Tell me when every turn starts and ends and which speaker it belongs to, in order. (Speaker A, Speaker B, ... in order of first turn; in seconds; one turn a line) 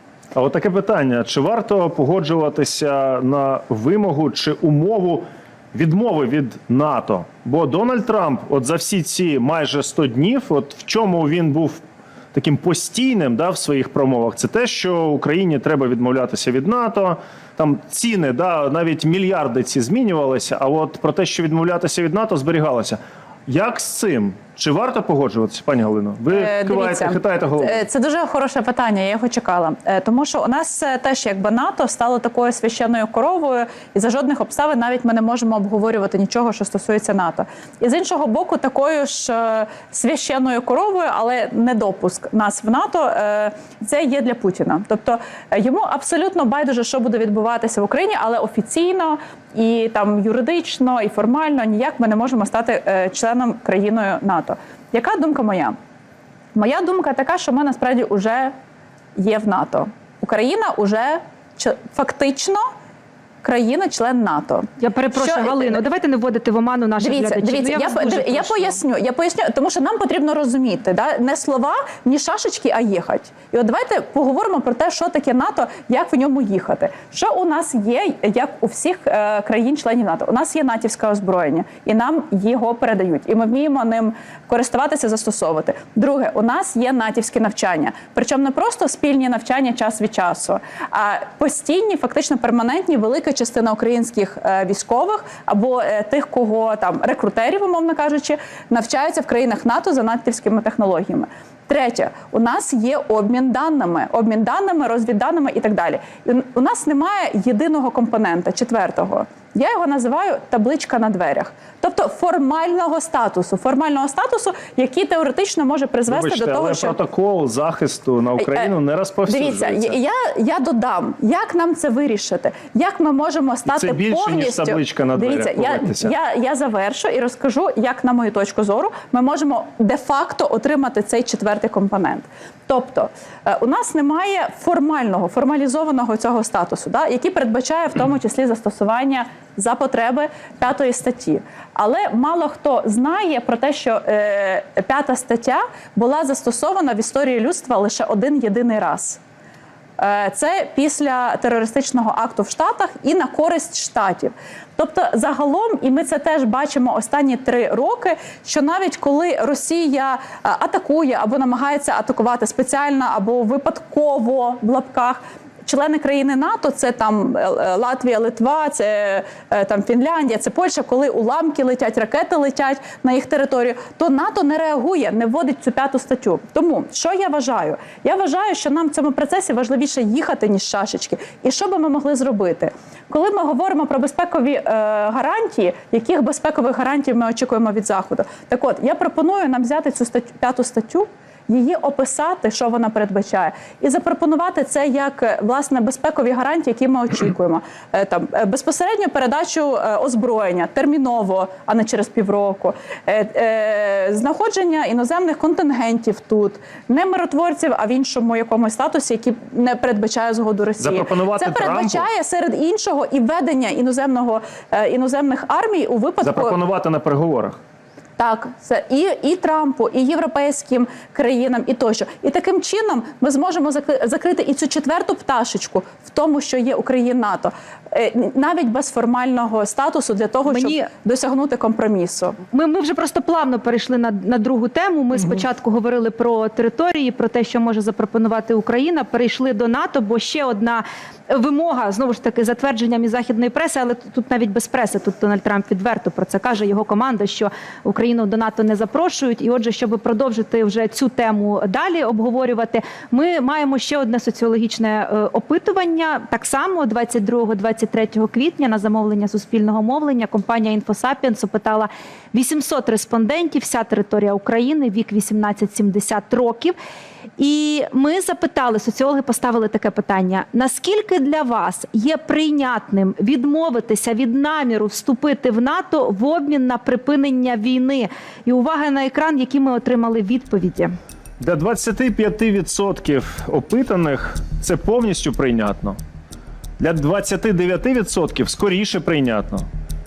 Speaker A: 0.3-11.8
Speaker A: 12.3-27.8
Speaker B: 26.3-55.8
Speaker B: 56.5-58.5
Speaker B: 59.1-62.7
Speaker B: 63.4-65.8
Speaker C: 64.8-68.8
Speaker B: 67.0-117.0
Speaker A: 116.1-120.0
Speaker B: 118.4-118.7
Speaker B: 119.3-149.2
Speaker A: 123.7-126.1
Speaker B: 150.0-216.6
Speaker A: 210.8-212.1
Speaker A: 216.2-217.6
Speaker B: 218.2-232.4
Speaker C: 230.5-230.9
Speaker C: 232.5-266.8
Speaker C: 267.4-280.9
Speaker A: 281.4-286.0
Speaker A: 286.8-289.7